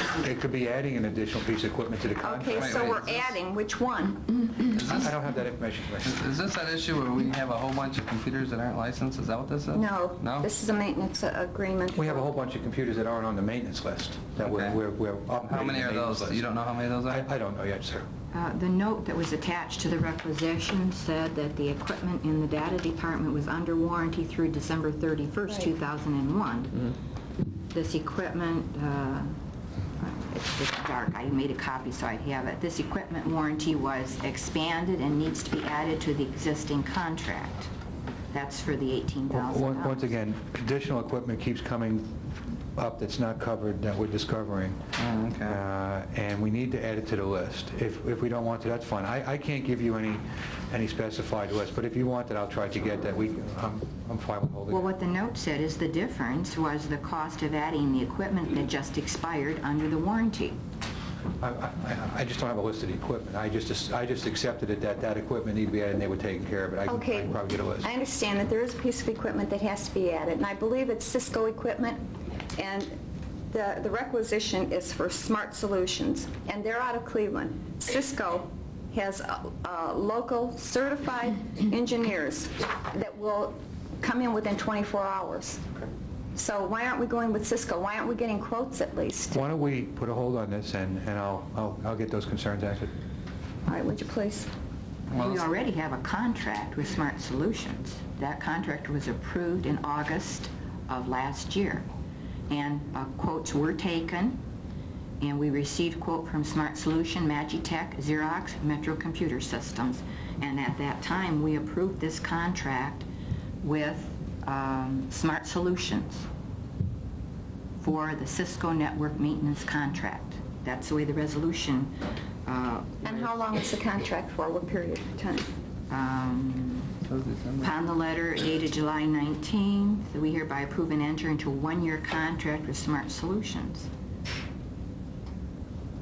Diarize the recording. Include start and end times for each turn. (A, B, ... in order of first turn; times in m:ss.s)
0:00.1-0:03.2 A
0:02.2-0:04.6 B
0:02.5-0:03.3 C
0:04.7-0:05.1 C
0:04.9-0:06.2 A
0:06.0-0:10.5 C
0:09.7-0:12.3 B
0:11.9-0:18.0 A
0:14.4-0:14.8 C
0:15.4-0:17.3 C
0:18.3-0:26.9 D
0:27.7-0:29.4 D
0:30.0-0:37.7 D
0:38.3-0:40.1 D
0:39.3-0:42.1 A
0:42.8-0:44.8 A
0:45.0-0:45.6 C
0:45.4-0:54.9 A
0:54.7-1:00.6 D
1:01.4-1:07.9 A
1:06.9-1:12.0 B
1:12.5-1:12.9 B
1:13.5-1:25.6 B
1:26.4-1:29.4 B
1:29.3-1:32.9 A
1:33.6-1:34.5 B
1:35.1-1:41.9 D
1:35.1-1:35.5 C
1:42.5-1:44.4 D
1:45.2-1:53.0 D
1:53.6-1:56.3 D
1:57.8-2:03.3 D
2:03.0-2:05.5 B
2:05.9-2:06.9 D
2:07.0-2:07.8 C
2:07.6-2:13.9 D